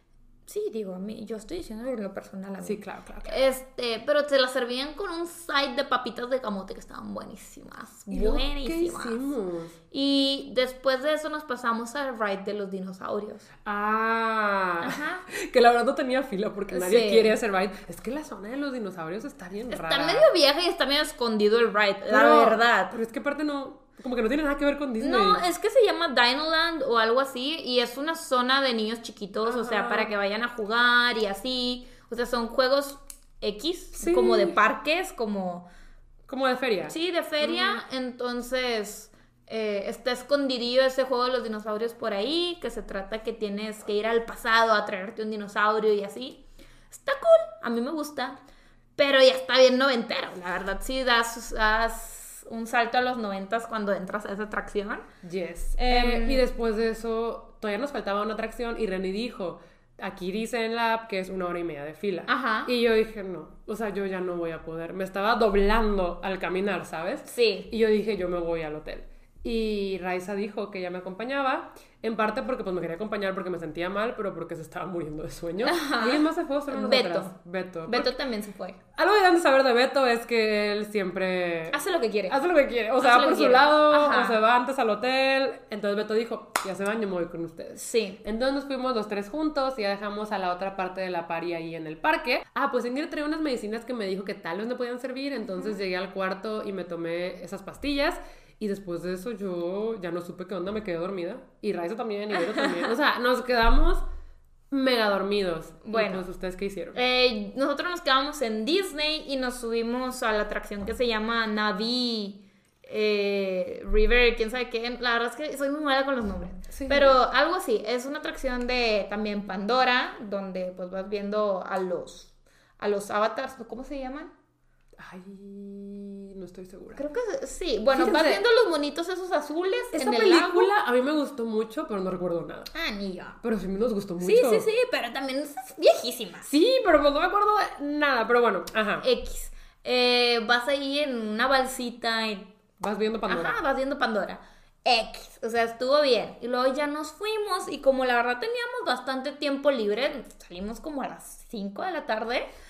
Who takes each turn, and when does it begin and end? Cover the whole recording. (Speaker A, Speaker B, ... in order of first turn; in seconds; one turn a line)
Speaker A: 0.5-9.3
Speaker B: 2.6-3.4
Speaker B: 8.1-9.7
Speaker A: 9.9-13.5
Speaker B: 13.7-20.3
Speaker A: 14.8-15.2
Speaker A: 16.7-17.4
Speaker A: 19.7-22.9
Speaker B: 22.1-25.4
Speaker A: 25.0-35.6
Speaker B: 29.4-30.1
Speaker B: 34.0-34.6
Speaker B: 36.3-37.8
Speaker A: 36.9-48.4
Speaker A: 49.0-55.0
Speaker B: 55.2-78.1
Speaker A: 55.8-56.4
Speaker A: 62.3-62.7
Speaker A: 67.3-67.7
Speaker A: 75.6-77.3
Speaker A: 77.9-78.8
Speaker B: 79.0-104.0
Speaker A: 81.7-82.4
Speaker A: 83.0-84.4
Speaker A: 87.8-88.2
Speaker A: 95.5-95.8
Speaker A: 102.3-102.9
Speaker B: 104.7-107.0
Speaker A: 105.8-106.2
Speaker A: 106.9-124.3
Speaker B: 116.7-117.2
Speaker B: 125.0-127.0
Speaker A: 127.0-130.7
Speaker B: 127.9-128.4
Speaker B: 129.9-132.7
Speaker A: 132.7-133.4
Speaker B: 133.4-134.7
Speaker A: 134.2-136.5
Speaker B: 136.4-139.1
Speaker A: 139.0-142.5
Speaker B: 142.8-143.6
Speaker A: 143.3-152.5